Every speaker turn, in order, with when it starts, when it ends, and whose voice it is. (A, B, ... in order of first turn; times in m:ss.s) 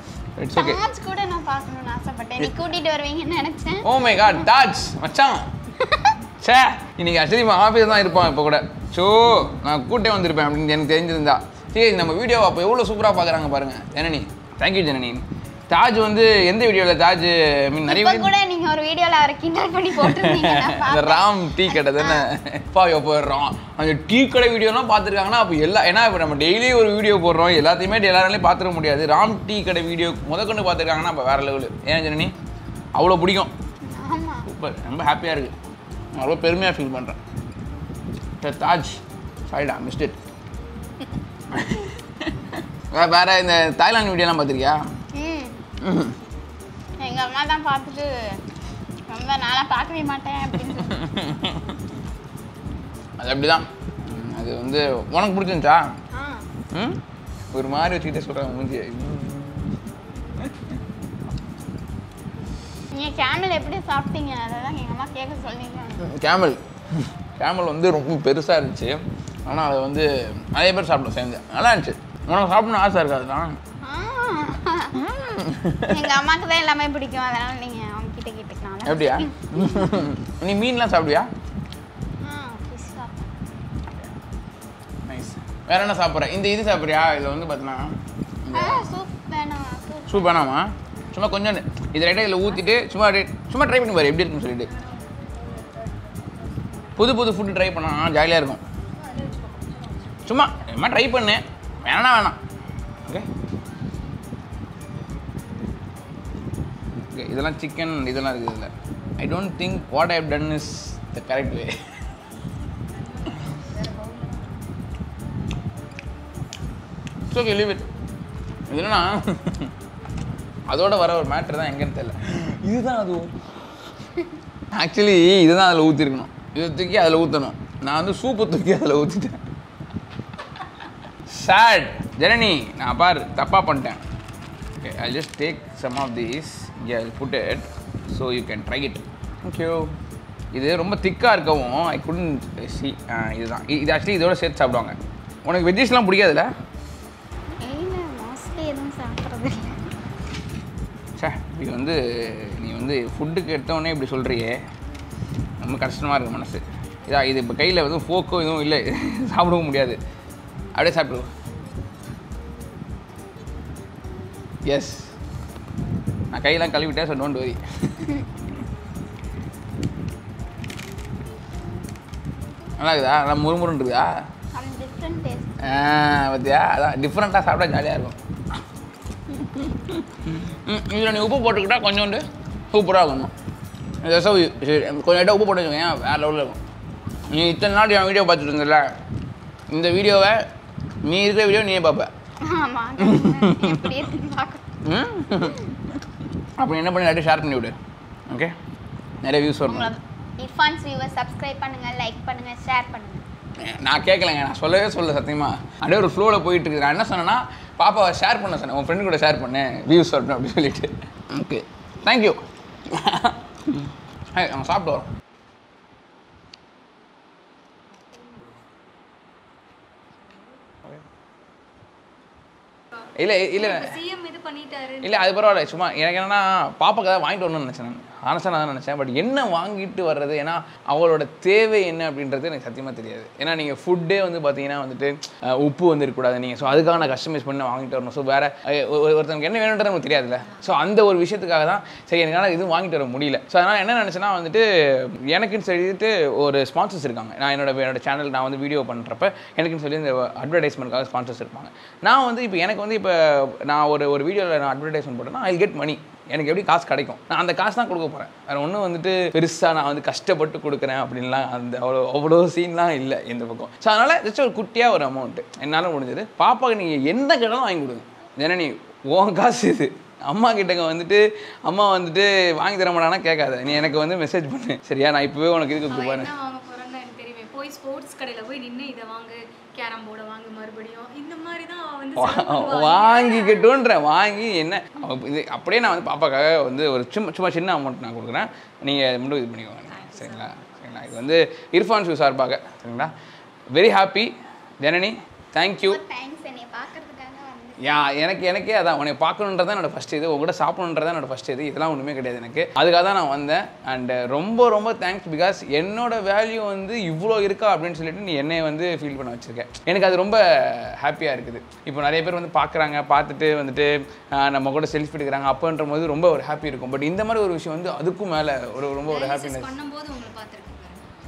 0:00.4-0:00.8 A
0:00.5-0:04.4 B
0:03.8-0:05.5 A
0:05.8-0:06.2 B
0:06.4-0:18.3 A
0:17.8-0:22.3 B
0:20.0-0:32.3 A
0:32.9-0:33.5 A
0:33.8-0:34.4 B
0:34.4-0:35.5 A
0:36.1-0:37.2 A
0:38.4-0:40.2 A
0:41.5-0:44.9 A
0:45.1-0:45.6 B
0:45.8-0:46.2 A
0:47.0-0:48.4 B
0:49.1-0:51.1 B
0:50.7-0:51.8 A
0:53.2-0:56.0 A
0:56.1-0:56.5 B
0:56.7-0:57.0 A
0:57.5-0:59.7 A
1:00.4-1:00.7 A
1:02.9-1:06.0 B
1:06.0-1:13.6 A
1:13.8-1:15.1 B
1:14.9-1:16.1 A
1:15.8-1:20.0 B
1:18.8-1:21.3 A
1:22.2-1:23.3 B
1:25.0-1:29.0 A
1:28.5-1:30.4 B
1:30.1-1:34.7 A
1:35.1-1:35.9 C
1:37.0-1:38.6 A
1:39.0-1:40.2 C
1:40.2-1:42.4 A
1:47.1-1:51.9 A
1:57.3-1:57.9 A
1:58.7-1:59.7 A
2:00.7-2:03.4 A
2:04.7-2:09.4 A
2:11.3-2:14.0 A
2:14.8-2:19.9 A
2:20.5-2:26.5 A
2:27.6-2:29.9 B
2:31.2-2:34.6 A
2:35.6-2:40.0 A
2:40.7-2:41.3 A
2:44.7-2:45.1 A
2:46.3-2:48.1 A
2:52.8-2:54.2 A
2:54.5-2:55.6 B
2:55.6-2:58.6 A
2:59.4-3:03.3 A
3:04.0-3:06.6 A
3:07.3-3:08.9 A
3:09.7-3:10.5 A
3:11.0-3:12.1 A
3:12.4-3:14.7 B
3:13.0-3:14.0 A
3:14.8-3:16.0 A
3:15.4-3:15.7 B
3:16.6-3:17.8 A
3:18.3-3:18.6 A
3:19.2-3:19.9 A
3:19.7-3:23.2 B
3:23.6-3:35.1 A
3:43.2-3:44.0 A
3:43.5-3:45.7 C
3:45.0-4:36.3 A
4:35.9-4:43.8 C
4:42.2-4:53.1 A
4:49.9-4:51.2 C
4:53.7-4:56.0 A
4:55.8-4:58.0 B
4:57.8-5:19.7 A
5:19.1-5:21.0 C